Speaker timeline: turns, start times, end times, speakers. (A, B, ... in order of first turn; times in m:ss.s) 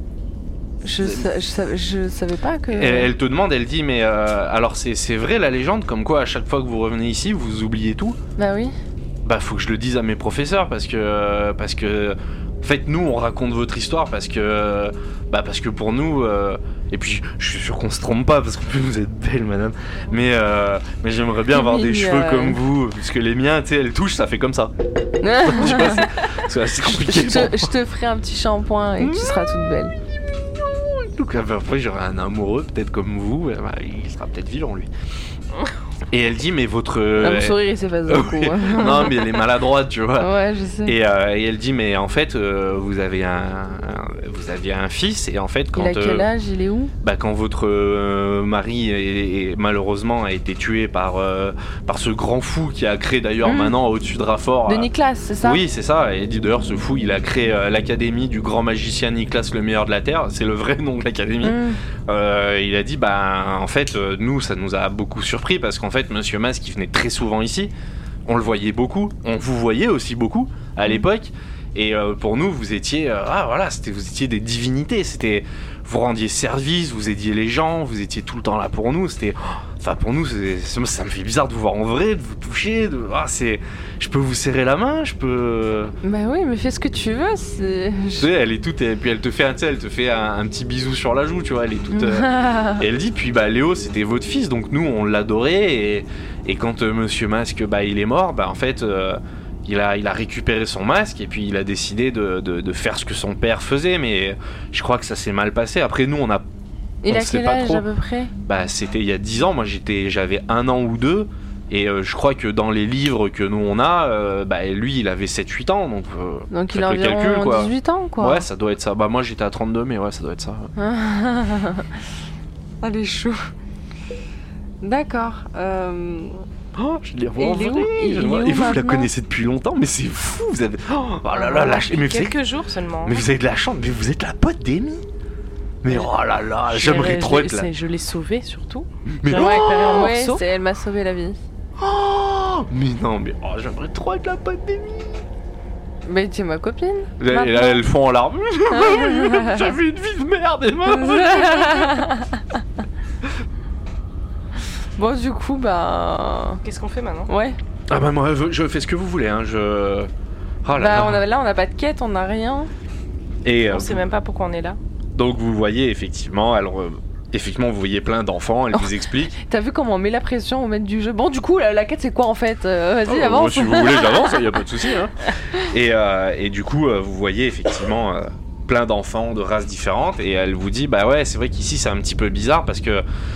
0:00.8-0:03.1 A
0:01.0-0:01.3 B
0:02.7-0:08.2 B
0:08.4-0:08.7 A
0:09.2-0:24.7 B
0:21.5-0:22.6 A
0:25.2-0:26.1 A
0:25.3-0:27.7 B
0:26.8-0:29.9 A
0:29.0-0:29.5 B
0:30.1-0:34.9 B
0:36.1-0:40.3 B
0:37.2-0:39.4 A
0:40.2-0:41.0 A
0:40.8-0:46.3 B
0:45.7-0:46.9 A
0:47.0-0:54.9 B
0:53.4-0:53.7 A
0:54.7-0:55.6 A
0:55.4-1:07.7 B
1:01.4-1:01.8 A
1:08.2-1:25.9 B
1:26.0-1:28.3 A
1:28.2-1:46.4 B
1:31.9-1:32.8 A
1:47.0-1:48.3 A
1:47.1-1:47.8 B
1:48.4-2:00.7 B
1:56.5-1:58.4 A
2:00.8-2:01.9 A
2:02.8-2:03.5 A
2:04.8-2:06.4 A
2:06.7-2:12.4 B
2:07.4-2:09.1 A
2:11.4-2:13.2 C
2:13.0-2:15.0 B
2:15.8-2:17.7 B
2:16.7-2:20.4 C
2:19.2-2:20.1 B
2:19.3-2:21.4 A
2:21.8-2:25.2 B
2:26.0-2:27.8 A
2:27.2-2:32.1 B
2:28.7-2:29.7 A
2:30.9-2:32.4 A
2:35.0-2:36.6 A
2:36.6-2:37.3 C
2:37.3-2:37.6 A
2:37.9-2:40.1 B
2:40.6-2:41.2 B
2:40.7-2:42.7 A
2:43.4-2:44.1 B
2:43.7-2:44.8 C
2:45.1-2:49.4 B
2:49.4-2:54.4 A
2:53.0-3:03.0 B